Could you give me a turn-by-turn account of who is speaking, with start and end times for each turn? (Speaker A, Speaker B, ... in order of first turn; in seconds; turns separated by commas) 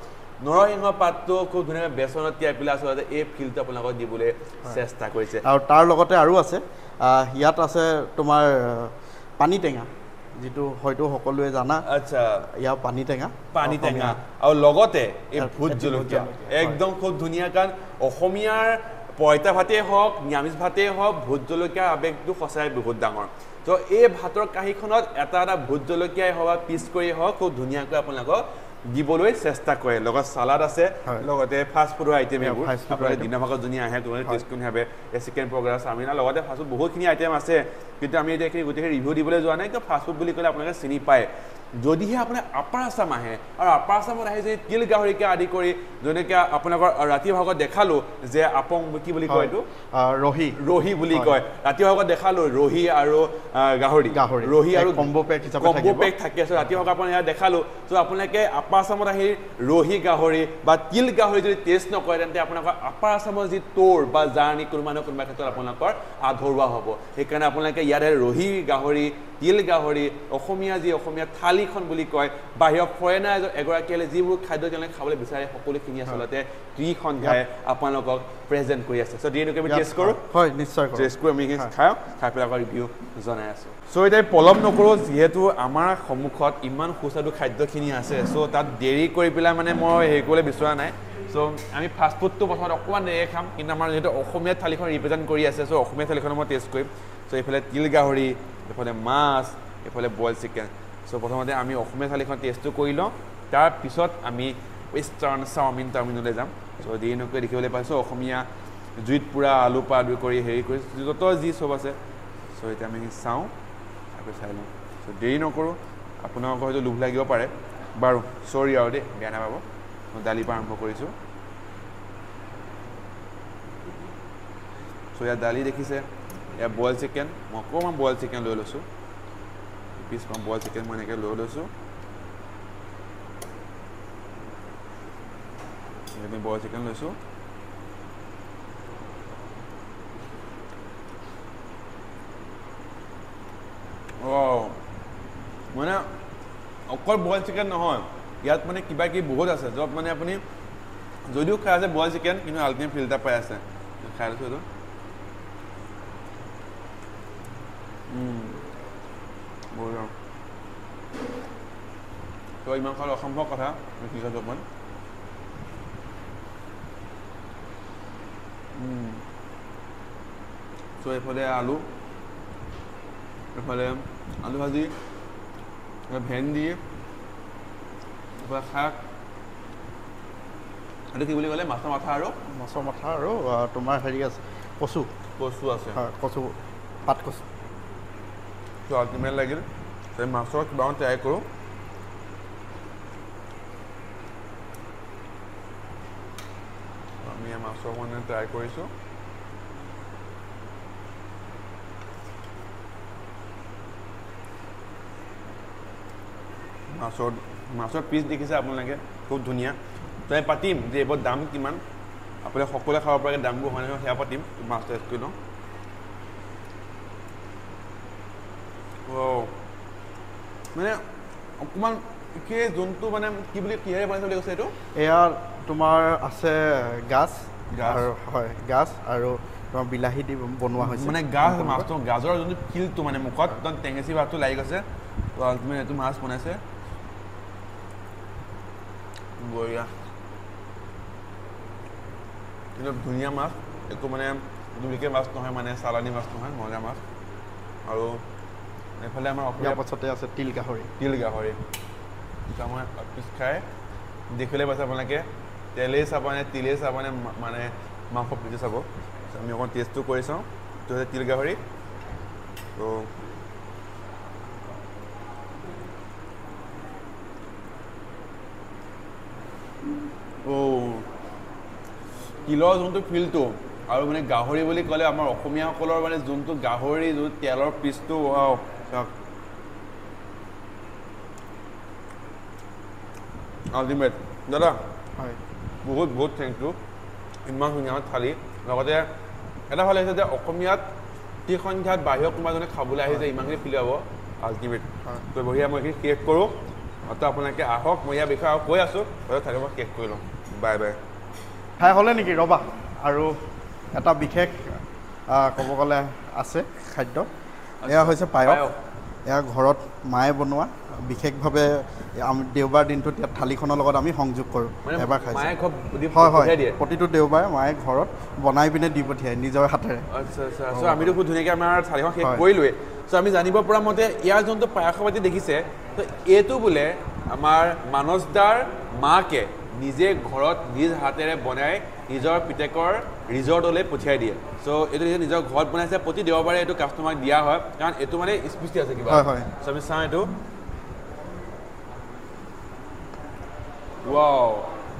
Speaker A: 0.4-5.4, Speaker B: 5.4-11.8, Speaker A: 11.8-12.5, Speaker B: 12.5-14.2, Speaker A: 13.5-49.6, Speaker B: 15.3-16.8, Speaker B: 32.4-33.3, Speaker B: 49.3-50.6, Speaker A: 50.5-80.2, Speaker B: 51.1-51.4, Speaker B: 54.1-56.8, Speaker B: 79.7-81.7, Speaker A: 80.9-108.5, Speaker A: 109.0-112.0, Speaker A: 112.5-113.5, Speaker A: 114.1-121.1, Speaker A: 125.1-128.8, Speaker A: 129.9-131.7, Speaker A: 136.1-137.2, Speaker A: 144.2-144.8, Speaker A: 145.7-146.1, Speaker A: 146.9-150.4, Speaker A: 151.3-154.7, Speaker A: 158.1-158.6, Speaker A: 159.7-160.1, Speaker A: 162.6-164.6, Speaker A: 168.7-169.2, Speaker A: 171.0-171.9, Speaker A: 173.5-174.9, Speaker A: 176.1-176.8, Speaker A: 178.4-179.0, Speaker A: 181.1-182.4, Speaker B: 182.5-185.1, Speaker A: 185.4-186.0, Speaker B: 185.9-186.5, Speaker B: 187.1-187.5, Speaker A: 188.9-191.5, Speaker A: 197.2-198.9, Speaker A: 206.9-211.8, Speaker A: 212.4-215.3, Speaker A: 219.1-219.6, Speaker A: 220.7-221.0, Speaker A: 221.6-224.8, Speaker B: 224.9-231.9, Speaker A: 227.7-228.1, Speaker A: 230.8-236.6, Speaker A: 239.4-239.9, Speaker A: 242.8-247.0, Speaker A: 247.8-248.2, Speaker A: 249.0-249.8, Speaker B: 249.6-250.9, Speaker A: 251.0-251.6, Speaker A: 252.5-253.7, Speaker A: 254.3-261.6, Speaker A: 262.8-263.1, Speaker A: 270.4-271.1, Speaker A: 272.4-279.1, Speaker A: 283.7-284.8, Speaker A: 285.8-286.8, Speaker A: 287.4-289.1, Speaker A: 289.7-290.9, Speaker A: 291.4-301.0, Speaker B: 301.8-303.3, Speaker B: 303.9-307.3, Speaker A: 307.8-308.8, Speaker B: 307.9-308.6, Speaker B: 309.3-315.5, Speaker A: 314.8-316.8, Speaker B: 316.1-320.1, Speaker A: 320.1-340.3, Speaker B: 320.7-321.2, Speaker B: 339.1-339.5, Speaker A: 344.0-344.7